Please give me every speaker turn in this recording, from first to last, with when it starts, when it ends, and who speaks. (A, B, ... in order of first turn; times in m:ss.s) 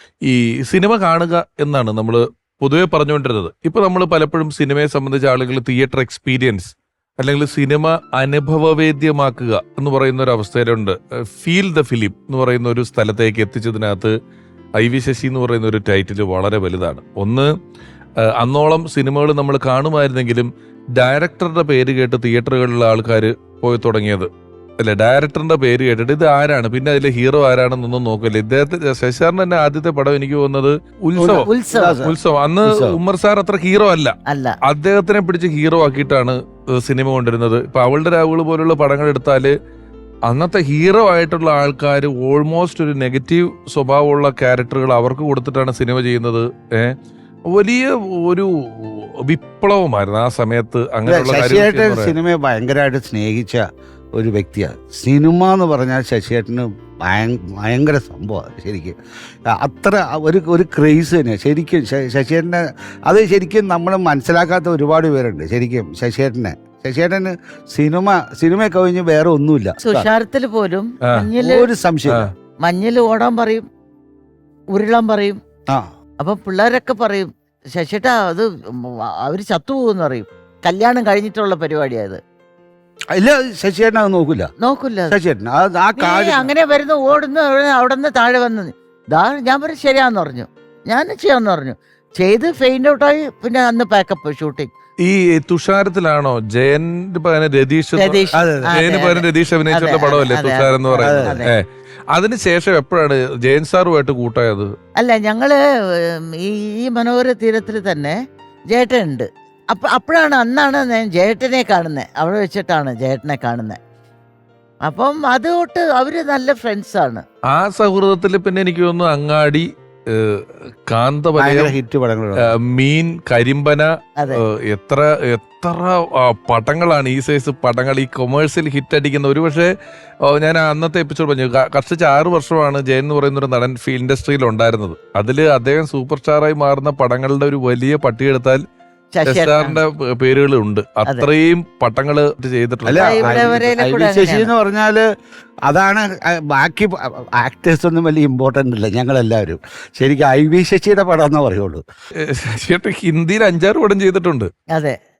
0:00.2-0:14.1 A
0:14.8-0:17.5 A
0:18.4-0:24.3 A
0:24.8-0:31.5 A
0:31.2-0:33.0 B
0:31.4-0:32.0 C
0:32.0-0:34.1 A
0:34.3-0:34.6 C
0:34.6-0:39.5 A
0:40.3-0:47.0 A
0:47.5-0:52.1 A
0:51.0-0:53.6 B
0:54.2-0:59.0 B
0:59.5-1:10.1 B
1:09.8-1:11.7 C
1:11.4-1:12.2 B
1:12.6-1:13.6 C
1:14.7-1:15.4 C
1:16.2-1:22.2 C
1:23.2-1:24.5 B
1:24.6-1:25.2 C
1:25.1-1:26.5 B
1:26.0-1:34.7 C
1:35.0-1:44.7 A
1:38.0-1:41.5 C
1:38.3-1:38.7 B
1:41.0-1:41.4 B
1:45.0-1:45.6 C
1:46.4-1:48.1 C
1:48.7-1:53.8 C
1:54.8-1:57.2 C
1:57.5-2:01.7 A
2:01.4-2:02.5 B
2:02.4-2:09.7 A
2:10.3-2:18.6 A
2:19.1-2:19.8 C
2:19.2-2:23.6 A
2:22.8-2:25.0 B
2:23.0-2:24.5 C
2:25.7-2:31.8 B
2:32.2-2:34.5 A